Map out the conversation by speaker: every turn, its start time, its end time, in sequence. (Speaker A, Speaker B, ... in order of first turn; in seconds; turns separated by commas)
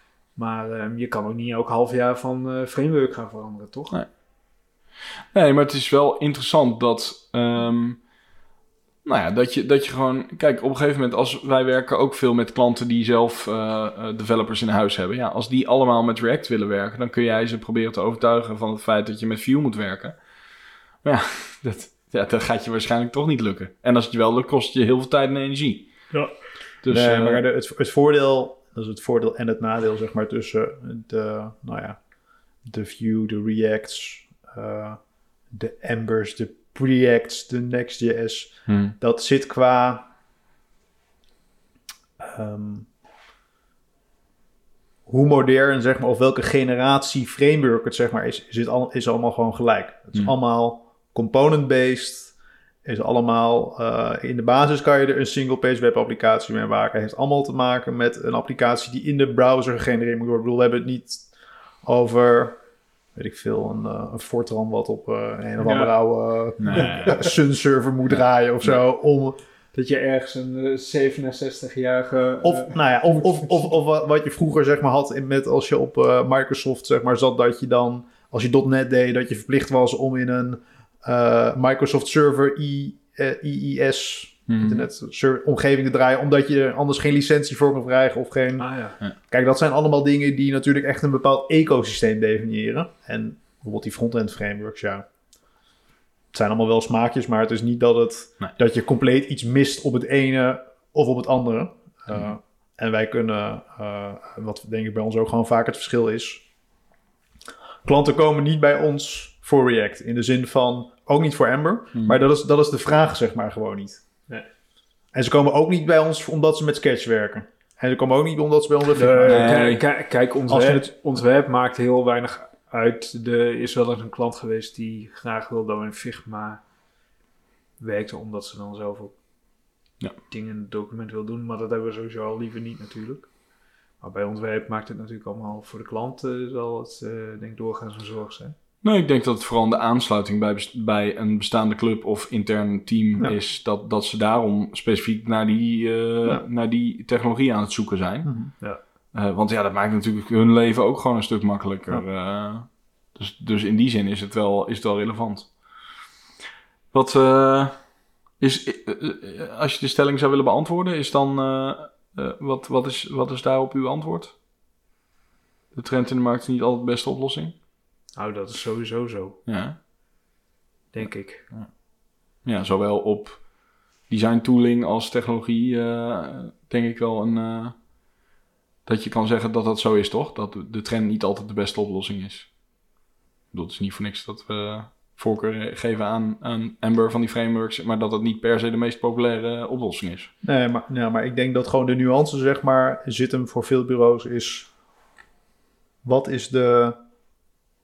Speaker A: 0.4-4.0, Speaker B: 5.3-8.0, Speaker B: 9.0-20.2, Speaker B: 21.0-25.9, Speaker B: 26.8-27.4, Speaker C: 26.9-32.0, Speaker C: 32.6-40.1, Speaker B: 38.7-39.0, Speaker C: 42.2-42.9, Speaker C: 45.1-52.3, Speaker C: 52.9-61.3, Speaker C: 61.8-62.6, Speaker C: 63.1-69.4, Speaker A: 65.6-65.9, Speaker B: 66.6-67.2, Speaker A: 66.7-67.3, Speaker A: 69.7-73.5, Speaker C: 72.4-88.7, Speaker B: 84.5-84.8, Speaker A: 88.6-89.0, Speaker C: 89.3-95.1, Speaker C: 96.3-106.4, Speaker C: 107.8-114.0, Speaker C: 115.1-119.6, Speaker A: 119.0-126.6, Speaker B: 119.2-119.8, Speaker C: 120.5-120.9, Speaker A: 127.8-129.2, Speaker A: 130.3-133.3, Speaker A: 134.0-138.6, Speaker B: 138.8-148.6, Speaker C: 148.2-148.5, Speaker B: 149.1-155.5, Speaker B: 156.9-157.9, Speaker B: 158.4-164.3, Speaker B: 165.7-167.6, Speaker A: 168.2-169.4, Speaker B: 169.5-169.8, Speaker A: 170.9-171.5, Speaker B: 171.0-171.7, Speaker B: 172.4-177.8, Speaker B: 178.9-182.5, Speaker B: 183.5-190.3, Speaker C: 190.4-194.7, Speaker C: 196.0-197.0